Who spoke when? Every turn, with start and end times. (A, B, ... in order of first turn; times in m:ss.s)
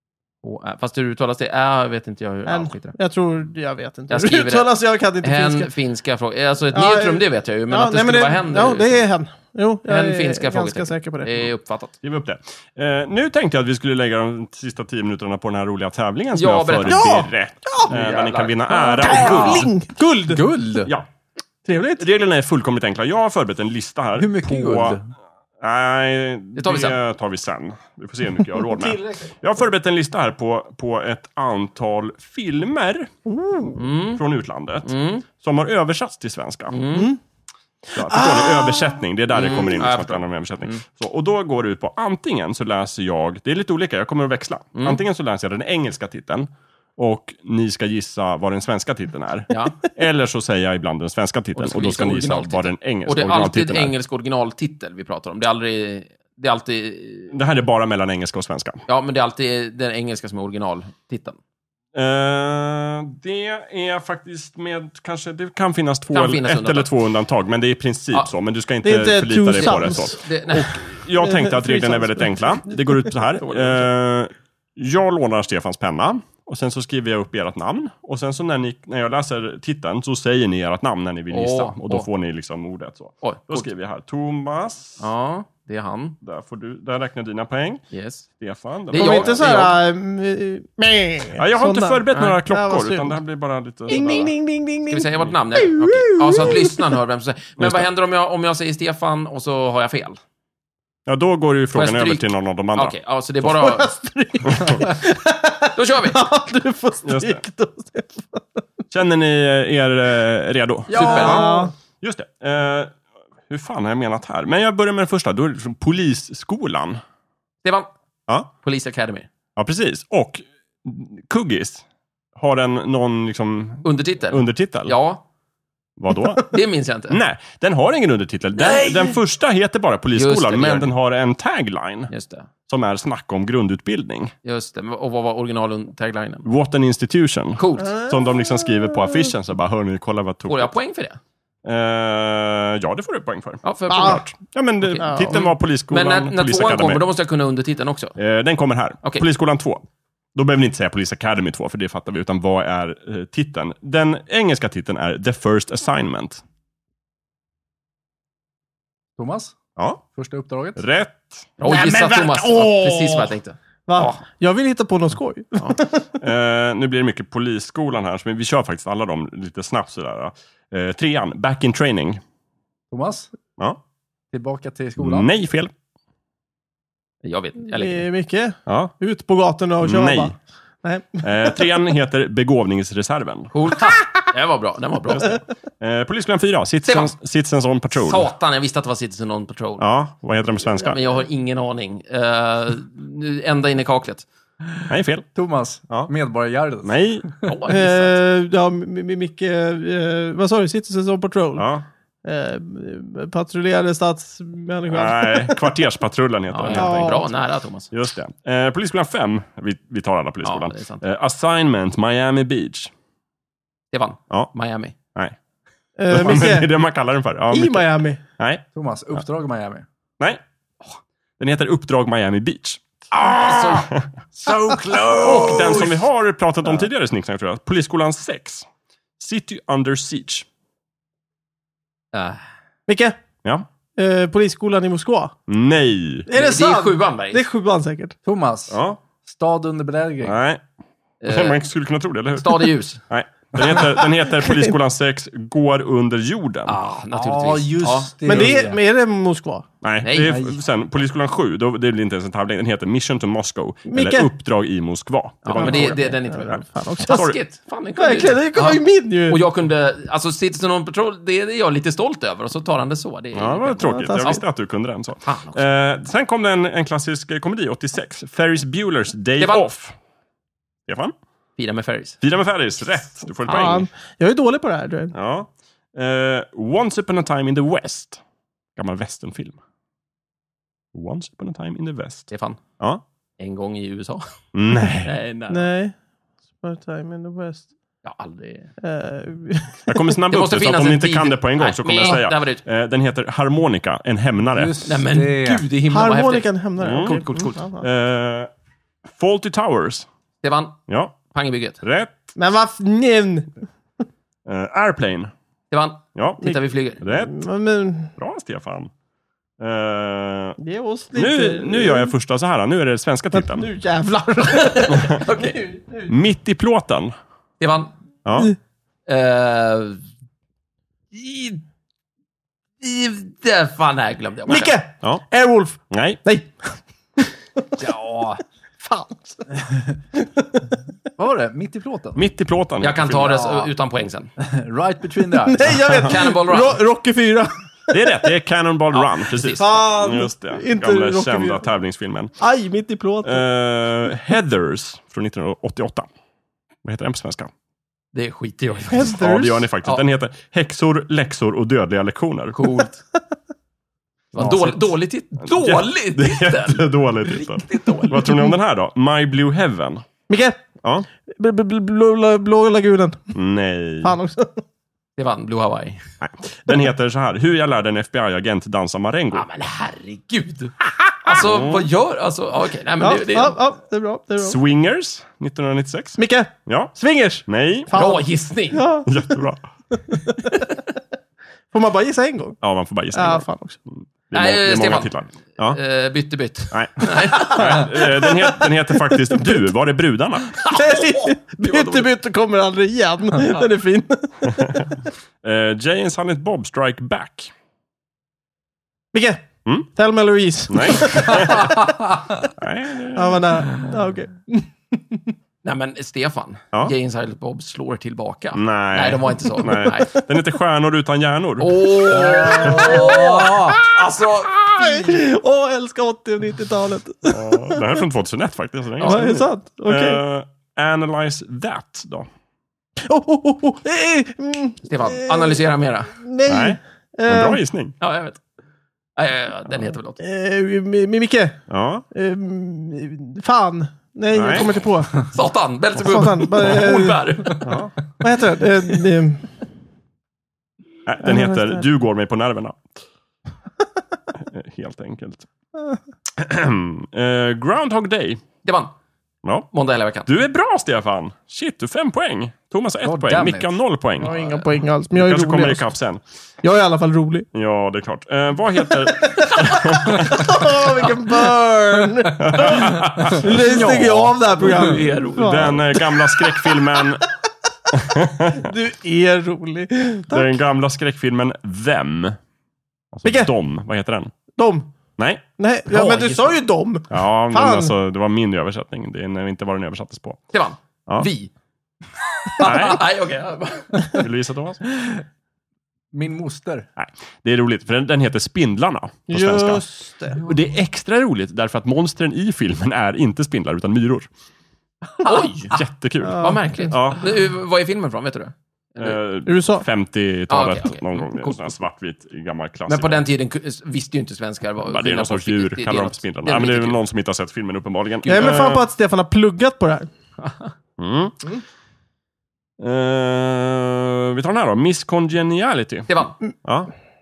0:00.4-0:03.0 A
0:02.5-0:05.7 B
0:04.1-0:09.0 A
0:06.7-0:11.5 B
0:09.9-0:11.9 A
0:12.0-0:19.7 C
0:16.3-0:17.2 A
0:16.9-0:17.9 B
0:17.8-0:19.6 A
0:18.7-0:20.4 B
0:20.3-0:20.9 D
0:21.7-0:22.0 B
0:22.0-0:25.0 C
0:24.2-0:25.1 D
0:25.6-0:33.1 C
0:26.6-0:27.0 A
0:33.3-0:33.8 B
0:33.8-0:34.2 A
0:34.1-0:36.8 C
0:34.9-0:35.2 A
0:36.7-0:37.1 A
0:36.9-0:37.2 B
0:37.9-0:53.9 C
0:38.0-0:39.0 B
0:39.3-0:40.8 A
0:44.8-0:45.0 A
0:49.5-0:49.8 A
0:51.6-0:57.3 A
0:57.3-0:58.8 C
0:58.9-1:01.4 A
1:02.0-1:25.1 C
1:06.1-1:06.9 A
1:08.8-1:10.2 B
1:09.6-1:10.9 A
1:11.2-1:12.6 B
1:13.4-1:13.9 A
1:21.3-1:22.1 A
1:23.2-1:23.7 A
1:25.0-1:26.2 A
1:26.2-1:27.8 C
1:27.9-1:28.3 A
1:28.4-1:29.6 C
1:28.9-1:29.8 A
1:28.9-1:33.2 B
1:31.4-1:34.3 C
1:33.9-1:36.8 B
1:34.9-1:40.2 A
1:37.6-1:37.9 C
1:41.1-1:43.0 C
1:41.7-1:43.9 A
1:43.4-1:48.6 B
1:44.5-1:44.8 C
1:45.8-1:46.2 A
1:47.0-1:47.4 C
1:48.9-1:53.0 C
1:50.9-1:51.6 A
1:50.9-1:51.7 B
1:53.5-1:57.0 C
1:58.6-1:59.3 A
1:59.6-2:01.8 C
2:02.4-2:05.0 C
2:03.8-2:05.2 A
2:06.0-2:06.5 C
2:06.4-2:07.2 A
2:07.1-2:12.1 C
2:08.6-2:09.2 A
2:10.2-2:10.9 A
2:12.1-2:12.5 A
2:12.7-2:14.3 C
2:14.4-2:16.5 A
2:16.4-2:20.8 C
2:17.6-2:18.0 A
2:17.8-2:18.9 B
2:20.5-2:21.2 A
2:21.6-2:27.0 C
2:23.6-2:28.2 A
2:23.9-2:24.2 B
2:25.0-2:25.4 B
2:28.2-2:29.8 C
2:30.4-2:36.4 C
2:39.2-2:39.6 D
2:40.1-2:40.8 D
2:40.8-2:41.6 C
2:41.6-2:44.2 A
2:41.6-2:43.3 B
2:43.9-2:46.1 B
2:46.2-2:52.2 C
2:52.9-2:53.3 D
2:54.3-2:55.3 D
2:55.0-2:55.7 C
2:57.2-2:58.0 A
2:57.7-3:01.6 B
2:58.7-2:58.9 C
2:59.8-3:00.3 C
3:01.2-3:03.5 C
3:03.5-3:05.4 A
3:05.1-3:08.3 C
3:06.9-3:07.1 A
3:08.0-3:09.8 A
3:09.8-3:11.0 C
3:10.8-3:14.2 A
3:14.9-3:15.3 C
3:15.4-3:17.5 D
3:16.8-3:17.3 C
3:17.4-3:18.2 A
3:17.7-3:21.7 B
3:21.6-3:21.9 C
3:22.2-3:25.6 B
3:24.9-3:27.3 C
3:26.5-3:27.9 A
3:26.7-3:27.3 B
3:27.9-3:32.9 C
3:30.4-3:31.0 A
3:33.9-3:35.0 A
3:36.0-3:36.7 B
3:36.1-3:38.6 C
3:37.5-3:38.2 B
3:38.7-3:39.9 D
3:41.4-3:44.1 C
3:43.4-3:43.9 A
3:44.3-3:46.0 D
3:45.2-3:48.7 C
3:45.2-3:45.9 A
3:49.2-3:50.5 C
3:52.1-3:52.4 A
3:52.9-3:53.2 B
3:54.0-3:55.4 B
3:55.5-3:56.3 C
3:56.3-3:58.2 B
3:56.3-3:57.4 A
3:58.2-4:00.4 D
3:58.7-3:59.0 C
4:00.2-4:00.6 C
4:01.2-4:01.6 A
4:01.3-4:06.8 C
4:02.4-4:03.0 A
4:06.7-4:08.5 A
4:07.1-4:08.8 D
4:08.2-4:09.7 B
4:09.8-4:16.2 C
4:10.0-4:10.4 A
4:10.3-4:10.6 D
4:13.9-4:14.3 B
4:15.4-4:24.4 A
4:15.6-4:17.2 B
4:17.1-4:17.4 C
4:18.0-4:19.4 B
4:23.3-4:30.0 C
4:23.8-4:24.4 B
4:25.2-4:25.7 A
4:30.9-4:31.1 C
4:31.6-4:32.2 A
4:32.2-4:33.9 C
4:33.5-4:35.1 B
4:35.1-4:38.2 C
4:38.8-4:39.6 C
4:40.9-4:43.0 C
4:42.3-4:42.6 A
4:43.4-4:44.2 A
4:44.5-4:45.1 C
4:45.0-4:45.7 A
4:45.5-4:45.9 B
4:46.6-4:47.7 B
4:48.0-4:48.7 A
4:48.8-4:50.1 B
4:49.9-4:54.8 C
4:50.3-4:52.6 A
4:54.5-4:55.7 D
4:54.8-4:57.6 A
4:55.9-4:57.8 B
4:56.8-4:58.5 C
4:59.1-5:00.1 C
5:00.4-5:01.8 A
5:00.9-5:01.2 C
5:01.8-5:02.3 C
5:02.4-5:03.6 B
5:04.5-5:05.3 C
5:05.7-5:07.0 A
5:06.2-5:07.4 C
5:07.1-5:08.1 B
5:08.2-5:08.9 C
5:09.6-5:10.6 C
5:10.6-5:12.1 B
5:11.1-5:13.7 C
5:13.3-5:16.1 B
5:14.5-5:15.6 A
5:14.9-5:15.2 C
5:16.1-5:17.1 C
5:17.6-5:17.9 A
5:18.2-5:18.5 C
5:19.1-5:20.0 A
5:21.1-5:21.6 A
5:22.8-5:24.8 A
5:24.5-5:27.7 B
5:25.9-5:26.2 C
5:27.8-5:28.4 D
5:28.8-5:30.7 B
5:31.2-5:32.2 D
5:32.2-5:33.4 C
5:32.8-5:34.3 A
5:33.2-5:33.7 D
5:34.4-5:35.8 D
5:35.4-5:38.1 B
5:35.9-5:36.8 A
5:37.9-5:42.3 C
5:38.9-5:39.8 A
5:39.6-5:41.6 B
5:42.4-5:43.4 B
5:43.2-5:46.1 C
5:46.8-5:47.5 C
5:48.1-5:49.2 A
5:48.9-5:49.7 B
5:49.1-5:52.6 C
5:52.5-5:53.0 A
5:54.3-5:58.4 A
5:54.4-5:54.8 D
5:55.4-6:00.0 C
6:00.3-6:00.6 B
6:00.8-6:01.1 C
6:01.3-6:03.3 B
6:03.4-6:04.2 C
6:04.0-6:04.6 B
6:05.2-6:06.1 A
6:06.2-6:09.5 C
6:09.3-6:13.6 A
6:11.3-6:11.9 C
6:13.0-6:14.6 B
6:14.4-6:17.9 C
6:16.2-6:19.3 B
6:17.9-6:18.9 A
6:19.1-6:19.6 C
6:20.0-6:20.8 B
6:21.7-6:22.6 B
6:22.6-6:25.8 C
6:23.1-6:23.8 B
6:24.3-6:28.0 A
6:26.7-6:30.6 C
6:27.4-6:29.6 B
6:30.5-6:32.1 A
6:30.6-6:35.0 B
6:35.4-6:37.5 C
6:39.1-6:42.0 B
6:40.7-6:41.9 C
6:42.4-6:43.5 C
6:43.2-6:45.3 B
6:45.6-6:50.2 A
6:48.5-6:52.0 C
6:51.6-6:55.2 A
6:52.1-6:53.7 D
6:52.5-6:53.3 B
6:52.6-6:53.1 C
6:54.7-6:57.9 B
6:57.3-7:02.3 C
6:59.0-6:59.4 A
6:59.0-7:00.2 B
7:03.0-7:05.6 B
7:04.9-7:06.1 A
7:06.1-7:07.6 B
7:06.5-7:08.0 C
7:08.0-7:08.4 A
7:09.2-7:10.2 A
7:10.2-7:15.3 B
7:11.7-7:12.0 C
7:14.3-7:14.7 C
7:15.2-7:17.8 A
7:16.0-7:17.6 B
7:17.6-7:18.0 C
7:18.2-7:19.5 B
7:21.1-7:22.9 C
7:21.2-7:21.8 B
7:24.4-7:25.5 C
7:26.4-7:28.4 C
7:28.6-7:28.9 A
7:29.7-7:30.3 A
7:30.3-7:34.4 C
7:33.0-7:33.8 D
7:34.2-7:35.9 B
7:34.2-7:34.6 A
7:35.1-7:36.2 C
7:36.6-7:37.5 B
7:37.5-7:40.8 C
7:39.2-7:46.8 B
7:42.4-7:43.6 C
7:43.2-7:45.0 D
7:43.6-7:45.8 A
7:45.4-7:47.2 C
7:47.9-7:48.7 C
7:48.6-7:50.5 B
7:50.3-7:52.4 C
7:53.1-7:54.3 C
7:53.2-7:53.5 B
7:54.6-7:54.9 B
7:55.2-7:55.4 C
7:55.6-7:57.9 B
7:55.9-7:56.6 A
7:57.1-8:00.4 C
8:00.5-8:01.5 A
8:02.4-8:04.3 A
8:02.6-8:03.0 C
8:04.1-8:04.8 C
8:06.1-8:06.9 D
8:07.0-8:09.8 C
8:09.3-8:10.4 B
8:10.4-8:14.3 C
8:15.2-8:15.8 A
8:15.7-8:17.3 C
8:16.2-8:17.0 B
8:16.3-8:19.2 A
8:19.0-8:23.2 C
8:19.5-8:19.9 B
8:20.5-8:21.8 A
8:22.9-8:27.0 A
8:24.8-8:28.8 C
8:28.2-8:28.7 A
8:28.2-8:30.1 B
8:30.4-8:30.7 A
8:31.0-8:31.4 C
8:32.8-8:36.1 C
8:36.1-8:36.4 A
8:36.6-8:36.9 C